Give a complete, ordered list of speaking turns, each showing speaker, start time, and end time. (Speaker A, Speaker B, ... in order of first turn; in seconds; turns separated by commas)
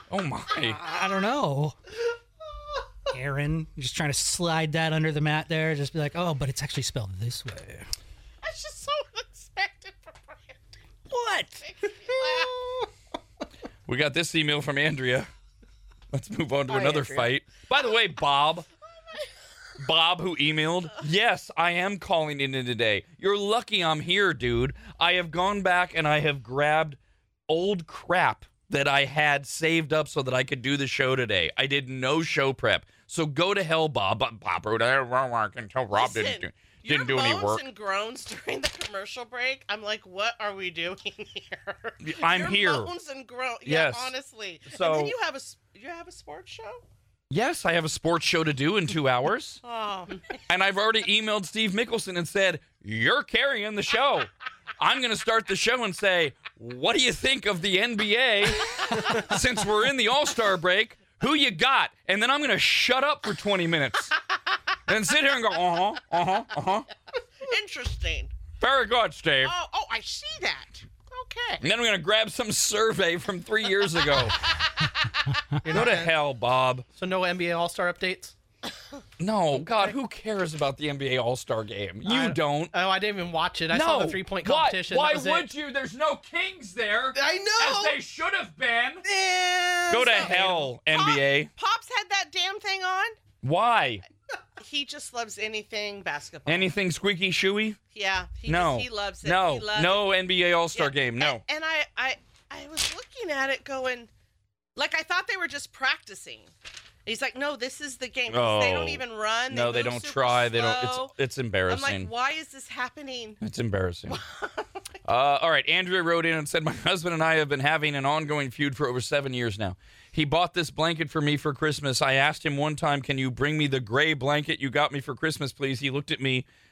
Speaker A: 0.1-0.9, Speaker B: 0.7-1.8, Speaker B: 3.1-7.9, Speaker C: 8.4-10.7, Speaker B: 11.1-11.6, Speaker C: 11.6-12.6, Speaker A: 13.9-15.3, Speaker A: 16.1-18.6, Speaker C: 16.7-17.3, Speaker A: 19.8-37.6, Speaker C: 35.9-46.8, Speaker A: 42.0-42.9, Speaker A: 43.6-44.1, Speaker A: 44.7-45.1, Speaker A: 47.3-49.6, Speaker C: 49.6-50.4, Speaker A: 50.5-64.1, Speaker A: 64.9-66.9, Speaker C: 67.4-68.3, Speaker A: 68.6-69.5, Speaker C: 69.4-71.6, Speaker A: 71.6-74.5, Speaker D: 75.6-76.1, Speaker A: 75.7-76.8, Speaker D: 77.0-78.3, Speaker A: 79.2-82.7, Speaker D: 79.6-79.9, Speaker D: 82.0-85.5, Speaker A: 83.7-89.0, Speaker D: 87.1-88.0, Speaker C: 89.0-93.2, Speaker D: 89.9-90.7, Speaker A: 89.9-91.5, Speaker A: 93.4-94.0, Speaker C: 94.6-96.7, Speaker A: 96.5-97.8, Speaker C: 97.9-100.1, Speaker A: 98.5-101.4, Speaker C: 100.7-104.1, Speaker C: 104.8-106.5, Speaker C: 107.0-111.1, Speaker A: 108.3-112.1, Speaker C: 111.7-113.4, Speaker A: 113.4-114.2, Speaker C: 114.1-114.7, Speaker A: 115.0-126.5